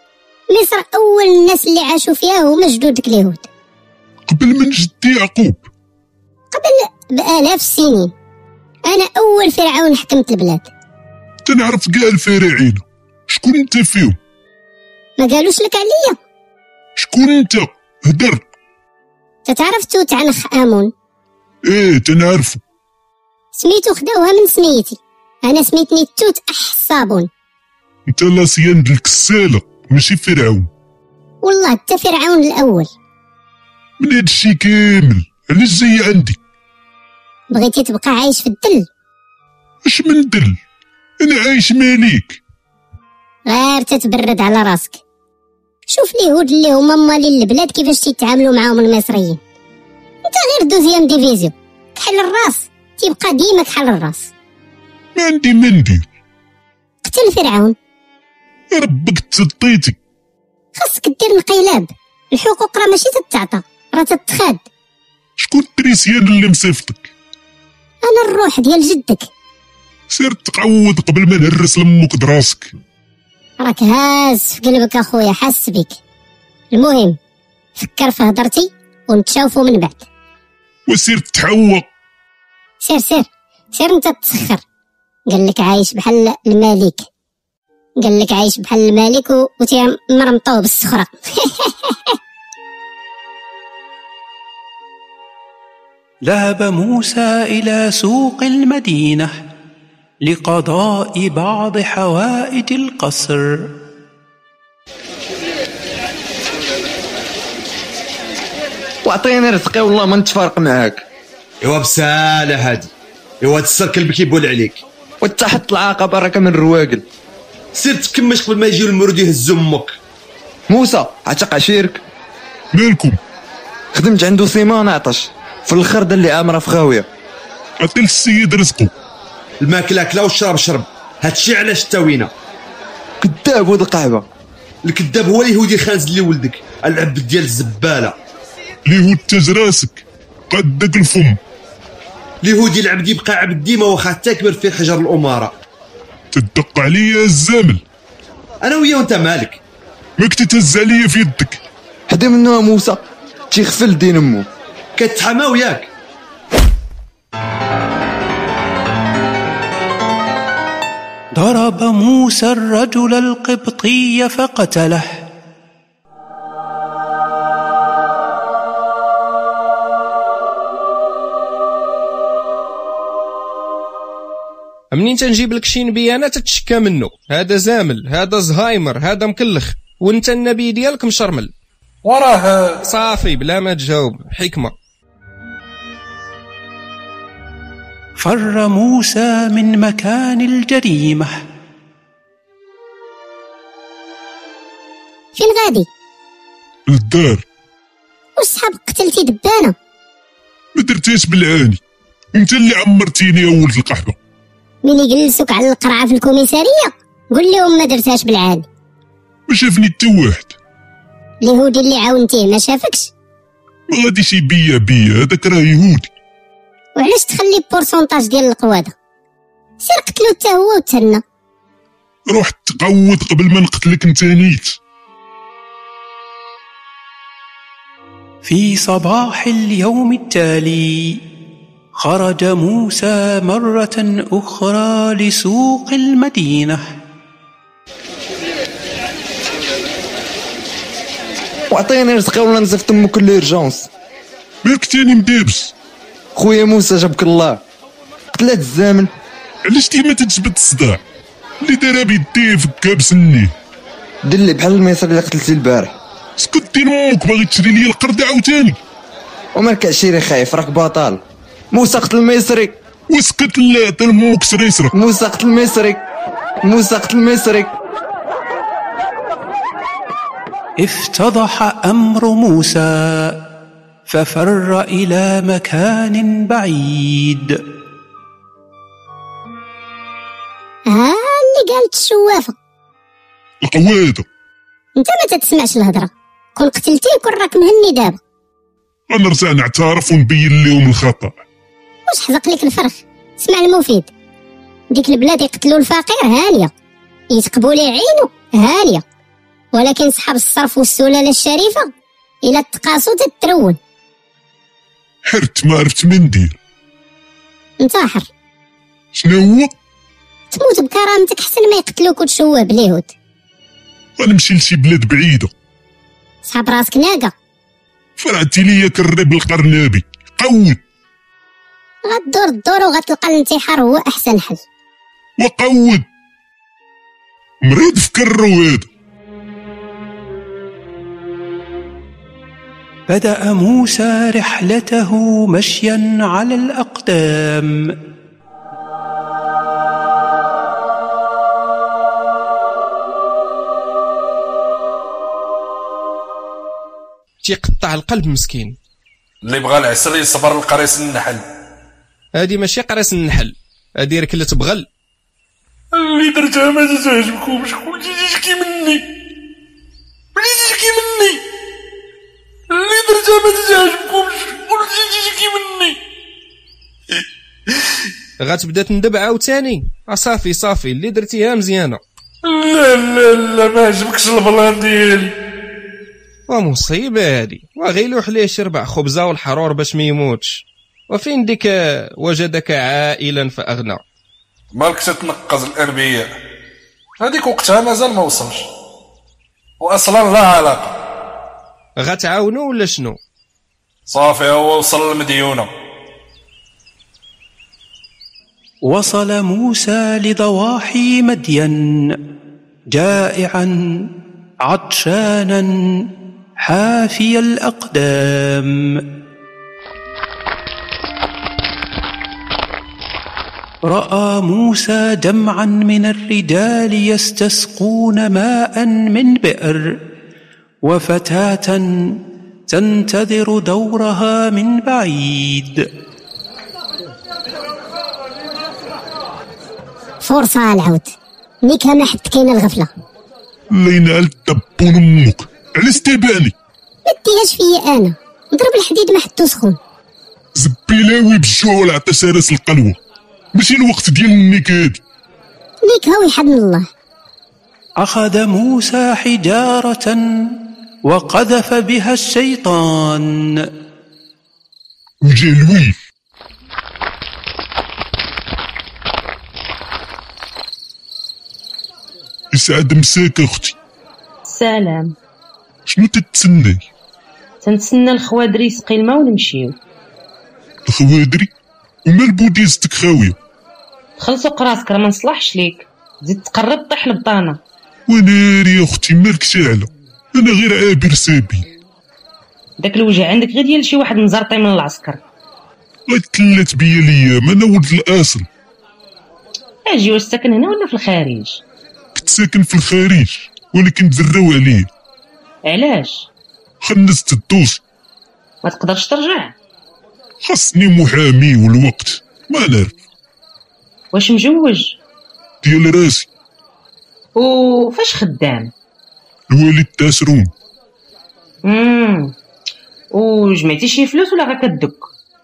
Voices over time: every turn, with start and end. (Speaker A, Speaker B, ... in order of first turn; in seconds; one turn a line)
Speaker A: 0.5-3.5
Speaker B: 4.3-5.6
Speaker A: 6.5-8.1
Speaker A: 8.8-10.7
Speaker B: 11.4-14.2
Speaker A: 15.2-16.2
Speaker B: 17.0-18.4
Speaker A: 19.4-20.9
Speaker B: 21.7-22.6
Speaker A: 23.5-27.3
Speaker B: 28.1-30.7
Speaker A: 31.4-32.9
Speaker B: 34.0-36.4
Speaker A: 37.5-38.8
Speaker B: 39.9-40.6
Speaker B: 41.2-42.4
Speaker A: 43.5-45.0
Speaker A: 45.9-49.4
Speaker A: 50.2-54.3
Speaker B: 55.1-56.0
Speaker A: 57.0-57.8
Speaker B: 58.7-60.0
Speaker A: 60.8-64.6
Speaker B: 65.4-67.1
Speaker A: 68.0-69.3
Speaker B: 70.1-72.7
Speaker A: 73.6-76.0
Speaker A: 76.7-77.2
Speaker A: 77.8-80.0
Speaker B: 80.9-81.8
Speaker A: 82.8-84.6
Speaker A: 85.3-87.0
Speaker A: 88.0-92.2
Speaker C: 96.2-99.3
Speaker C: 100.2-103.7
Speaker D: 109.0-111.0
Speaker E: 111.6-112.9
Speaker E: 113.4-114.8
Speaker D: 115.2-117.0
Speaker E: 117.7-119.9
Speaker D: 120.7-122.0
Speaker B: 122.7-123.2
Speaker D: 123.9-127.0
Speaker B: 127.8-128.9
Speaker E: 129.6-132.3
Speaker D: 133.2-134.2
Speaker E: 134.8-138.1
Speaker B: 138.9-141.4
Speaker E: 142.4-145.5
Speaker B: 146.3-147.8
Speaker E: 148.6-149.6
Speaker B: 150.2-151.6
Speaker D: 152.1-153.0
Speaker D: 153.5-154.4
Speaker E: 155.0-155.9
Speaker C: 161.4-165.2
Speaker F: 174.9-181.5
Speaker G: 182.0-182.8
Speaker F: 182.8-184.7
Speaker C: 188.2-191.3
Speaker A: 195.3-195.9
Speaker B: 196.9-197.4
Speaker A: 198.4-199.7
Speaker B: 200.7-201.8
Speaker B: 202.3-204.1
Speaker A: 204.8-208.6
Speaker B: 209.5-210.5
Speaker A: 211.4-213.1
Speaker B: 213.9-216.1
Speaker A: 216.9-218.9
Speaker A: 219.8-221.2
Speaker B: 222.3-224.8
Speaker C: 228.4-231.2
Speaker C: 231.9-236.8
Speaker D: 241.7-243.9
Speaker B: 244.6-245.7
Speaker D: 246.3-247.6
Speaker D: 248.3-249.1
Speaker B: 249.6-251.0
Speaker B: 251.6-253.5
Speaker D: 254.2-255.9
Speaker B: 256.4-258.8
Speaker D: 259.6-261.2
Speaker D: 261.7-262.7
Speaker B: 263.1-264.9
Speaker D: 264.9-266.0
Speaker D: 266.6-267.7
Speaker C: 270.8-273.4
Speaker C: 274.1-277.6
Speaker A: 280.9-282.5
Speaker B: 283.6-284.2
Speaker A: 284.9-288.2
Speaker B: 289.1-291.3
Speaker A: 292.1-294.1
Speaker A: 294.9-296.7
Speaker A: 297.3-299.0
Speaker A: 299.7-301.9
Speaker A: 302.4-303.8
Speaker B: 305.2-306.6
Speaker A: 307.8-308.3
Speaker B: 309.1-309.7
Speaker A: 310.5-313.1
Speaker B: 314.2-315.5
Speaker A: 316.4-317.3
Speaker B: 318.2-320.8
Speaker A: 322.0-324.6
Speaker B: 325.4-326.0
Speaker B: 327.6-328.9
Speaker C: 333.1-337.9
Speaker F: 347.4-348.8
Speaker G: 349.4-351.4
Speaker F: 352.3-354.9
Speaker G: 355.9-359.1
Speaker G: 360.4-361.4
Speaker G: 362.7-366.0
Speaker F: 368.4-372.0
Speaker G: 372.4-375.3
Speaker F: 376.5-384.0
Speaker G: 384.7-386.3
Speaker G: 387.2-388.6
Speaker G: 389.8-390.9
Speaker F: 392.0-393.2
Speaker G: 394.1-395.7
Speaker C: 398.8-402.2
Speaker C: 402.9-404.1
Speaker C: 404.6-406.1
Speaker C: 406.6-409.0
Speaker C: 413.9-419.9
Speaker C: 420.8-425.9
Speaker A: 430.2-432.9
Speaker B: 433.7-436.5
Speaker A: 437.1-439.8
Speaker B: 440.6-443.0
Speaker B: 443.5-445.0
Speaker A: 445.8-446.9
Speaker C: 448.0-453.7
Speaker B: 455.2-455.9
Speaker B: 462.5-463.8
Speaker H: 464.4-465.1
Speaker B: 465.9-466.8
Speaker H: 467.6-469.7
Speaker B: 470.9-471.5
Speaker B: 472.1-473.4
Speaker H: 474.2-477.6
Speaker B: 478.1-481.6
Speaker H: 482.8-485.2
Speaker B: 486.1-488.5
Speaker H: 489.9-491.6
Speaker B: 492.1-494.9
Speaker H: 495.6-496.3
Speaker B: 496.8-497.8
Speaker H: 498.6-499.5
Speaker B: 500.4-502.9
Speaker H: 504.1-505.0
Speaker B: 505.6-506.3
Speaker H: 507.4-508.7
Speaker B: 509.5-510.5
Speaker H: 511.6-512.3
Speaker H: 513.1-515.1